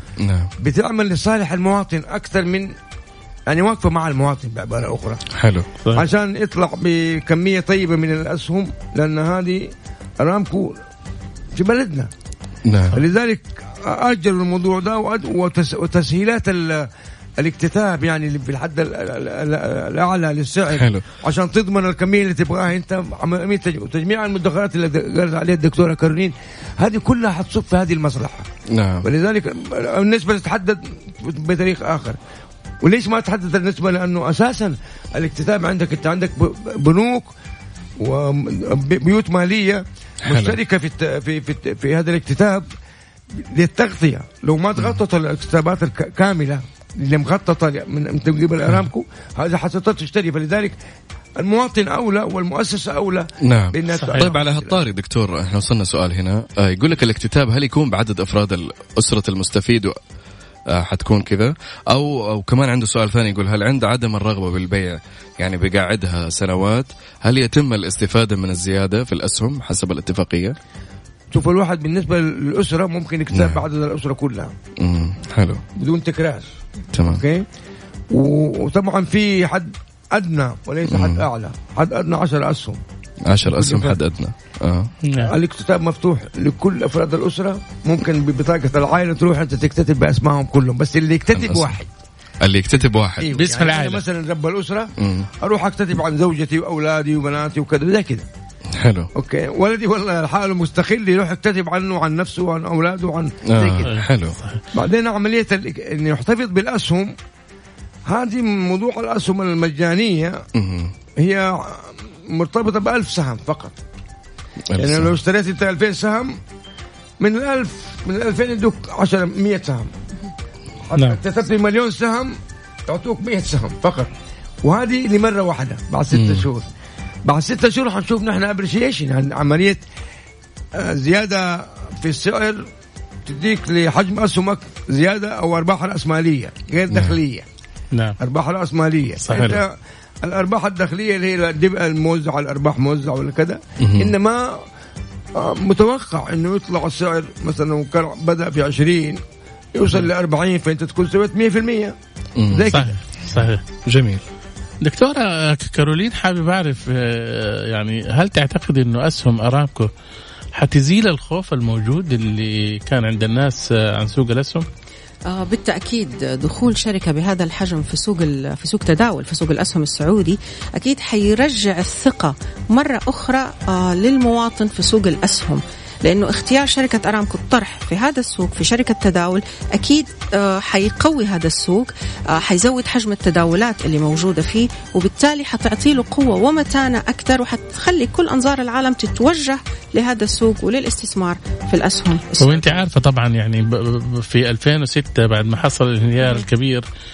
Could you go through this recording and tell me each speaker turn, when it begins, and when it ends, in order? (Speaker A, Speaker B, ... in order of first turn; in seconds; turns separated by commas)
Speaker A: 0.2-0.5, Speaker B: 0.6-2.7, Speaker B: 3.5-5.2, Speaker A: 5.3-5.7, Speaker B: 5.9-10.8, Speaker B: 11.5-12.1, Speaker A: 12.7-13.0, Speaker B: 12.9-28.5, Speaker A: 20.7-21.1, Speaker A: 28.7-29.1, Speaker B: 29.0-32.2, Speaker B: 32.8-37.3, Speaker B: 38.0-42.6, Speaker A: 40.3-40.6, Speaker B: 43.3-50.7, Speaker B: 51.4-54.8, Speaker A: 53.4-60.0, Speaker C: 54.0-54.3, Speaker A: 60.7-70.6, Speaker B: 71.3-74.5, Speaker A: 73.3-73.6, Speaker A: 74.8-75.6, Speaker B: 75.8-76.5, Speaker A: 76.9-77.2, Speaker B: 77.1-77.5, Speaker B: 78.1-82.8, Speaker A: 80.9-81.2, Speaker A: 83.2-84.9, Speaker B: 83.4-84.0, Speaker C: 85.0-85.3, Speaker B: 85.2-91.9, Speaker A: 91.3-91.7, Speaker A: 92.4-93.3, Speaker B: 92.8-98.3, Speaker C: 93.3-94.0, Speaker A: 95.0-95.3, Speaker A: 98.8-99.1, Speaker B: 99.1-103.9, Speaker A: 103.5-104.4, Speaker C: 103.8-104.6, Speaker B: 104.7-107.1, Speaker B: 108.1-110.5, Speaker A: 110.5-110.9, Speaker B: 111.1-113.8, Speaker A: 114.7-115.2, Speaker B: 114.8-116.4, Speaker B: 117.2-119.9, Speaker B: 120.9-122.3, Speaker B: 122.9-124.1, Speaker B: 124.6-126.7, Speaker A: 126.1-126.4, Speaker B: 127.2-129.8, Speaker B: 130.7-132.7, Speaker B: 133.2-137.4, Speaker A: 136.9-137.2, Speaker B: 138.2-144.6, Speaker C: 139.2-139.6, Speaker A: 143.8-144.1, Speaker B: 145.3-149.2, Speaker B: 149.7-151.9, Speaker A: 152.4-152.7, Speaker B: 152.5-153.0, Speaker C: 152.7-153.6, Speaker A: 153.3-154.2, Speaker C: 154.8-159.9, Speaker C: 160.6-164.6, Speaker D: 165.2-192.8, Speaker C: 192.4-196.8